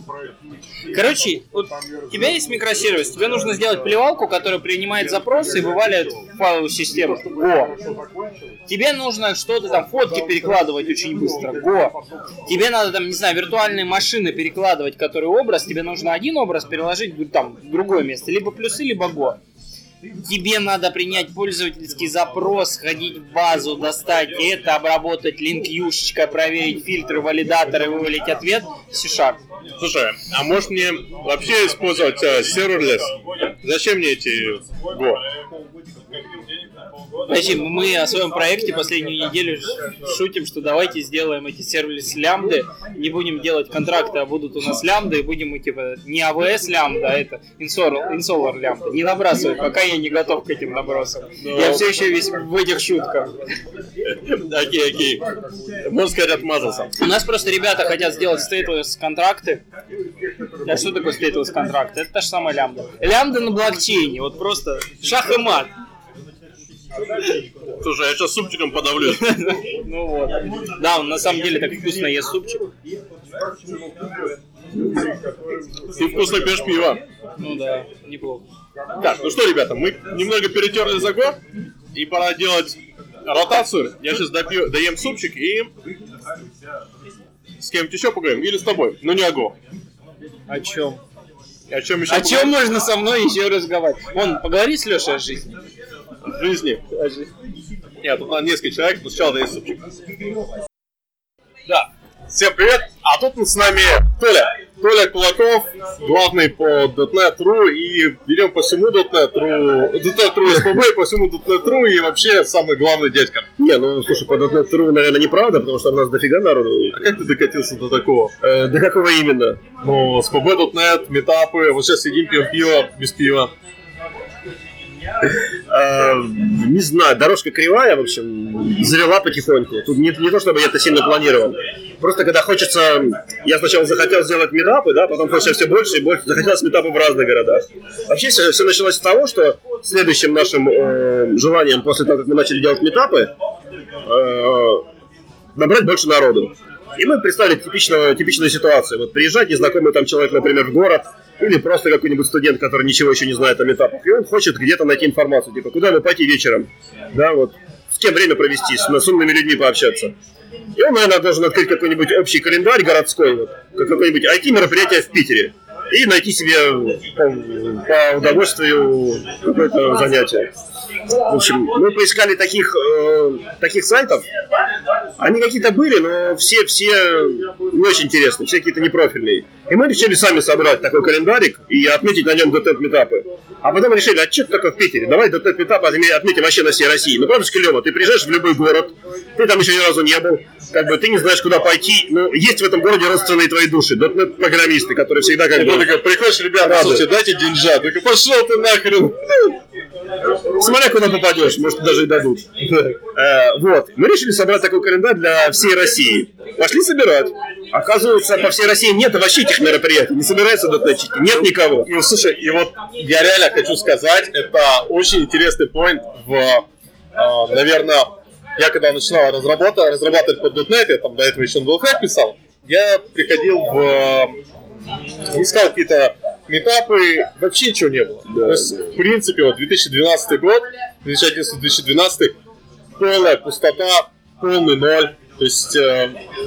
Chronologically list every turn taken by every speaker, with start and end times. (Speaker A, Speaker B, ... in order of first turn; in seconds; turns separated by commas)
Speaker A: 0.9-7.7, Speaker A: 8.7-12.0, Speaker A: 12.5-19.4, Speaker A: 20.2-29.4, Speaker B: 29.8-35.2, Speaker A: 37.3-53.3, Speaker B: 51.4-51.9, Speaker B: 54.3-55.2, Speaker B: 55.9-56.9, Speaker A: 57.0-59.6, Speaker A: 60.7-65.7, Speaker B: 67.8-69.3, Speaker A: 69.0-72.7, Speaker B: 75.9-77.0, Speaker A: 77.4-78.4, Speaker B: 79.0-81.4, Speaker B: 81.9-85.7, Speaker B: 87.6-89.5, Speaker A: 90.5-91.0, Speaker B: 91.7-92.6, Speaker A: 92.1-95.5, Speaker B: 96.3-96.8, Speaker A: 96.9-97.3, Speaker B: 98.0-100.0, Speaker B: 101.7-113.5, Speaker C: 113.6-117.0, Speaker B: 116.9-118.3, Speaker C: 118.4-119.6, Speaker B: 119.8-123.5, Speaker C: 125.7-143.3, Speaker C: 144.1-144.8, Speaker C: 145.6-160.1, Speaker C: 160.8-170.5, Speaker C: 171.3-174.3, Speaker C: 175.2-195.9, Speaker B: 195.5-199.6, Speaker C: 196.6-197.1, Speaker C: 200.6-211.9, Speaker B: 211.8-224.4, Speaker B: 225.3-232.4, Speaker C: 228.3-228.8, Speaker B: 233.0-236.2